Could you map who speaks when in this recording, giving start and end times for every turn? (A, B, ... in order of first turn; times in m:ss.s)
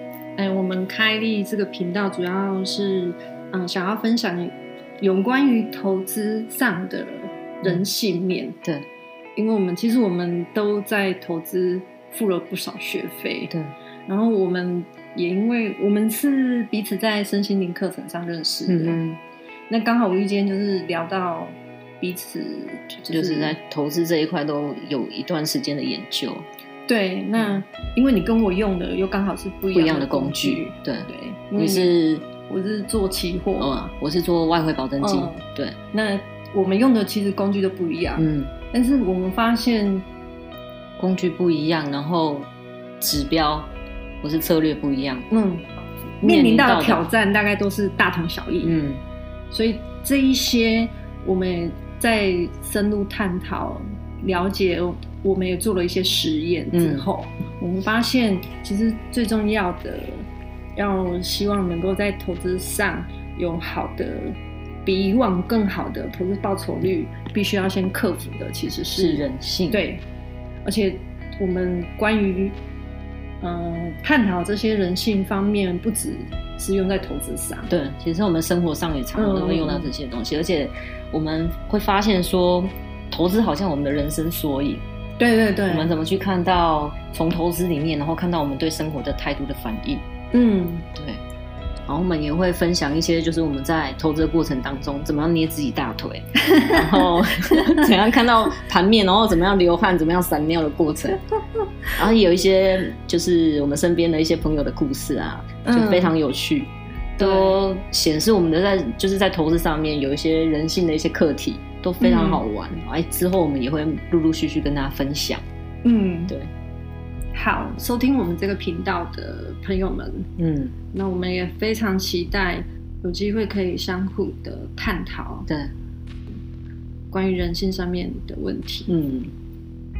0:00.4-0:08.6 A
0:09.4-0:13.5 A
0:14.1-0:19.0 A
0:18.7-0:19.2 B
0:19.7-0:23.6 A
0:23.1-0:26.5 B
0:26.9-0:33.8 A
0:29.7-0:32.2 B
0:33.6-0:35.8 B
0:35.0-0:40.0 A
0:38.2-0:38.5 B
0:41.0-0:42.5 B
0:43.0-0:43.7 B
0:44.2-0:45.3 B
0:45.3-0:45.7 A
0:46.2-0:48.8 A
0:46.2-0:47.0 B
0:48.6-0:49.0 B
0:49.5-1:10.0 A
0:56.7-0:57.1 B
1:08.9-1:09.8 B
1:10.6-1:12.6 A
1:13.4-1:17.7 A
1:17.7-1:24.8 B
1:19.2-1:19.9 A
1:25.2-1:25.9 A
1:25.7-1:30.0 B
1:30.3-1:30.8 A
1:30.9-1:31.2 B
1:31.9-1:41.2 B
1:36.5-1:36.9 A
1:41.9-1:55.4 B
1:45.6-1:46.1 A
1:47.2-1:47.6 A
1:52.0-1:52.4 A
1:55.8-1:56.3 A
1:57.3-2:00.3 A
2:00.4-2:00.7 B
2:00.9-2:05.5 A
2:07.1-2:08.9 A
2:08.9-2:09.3 B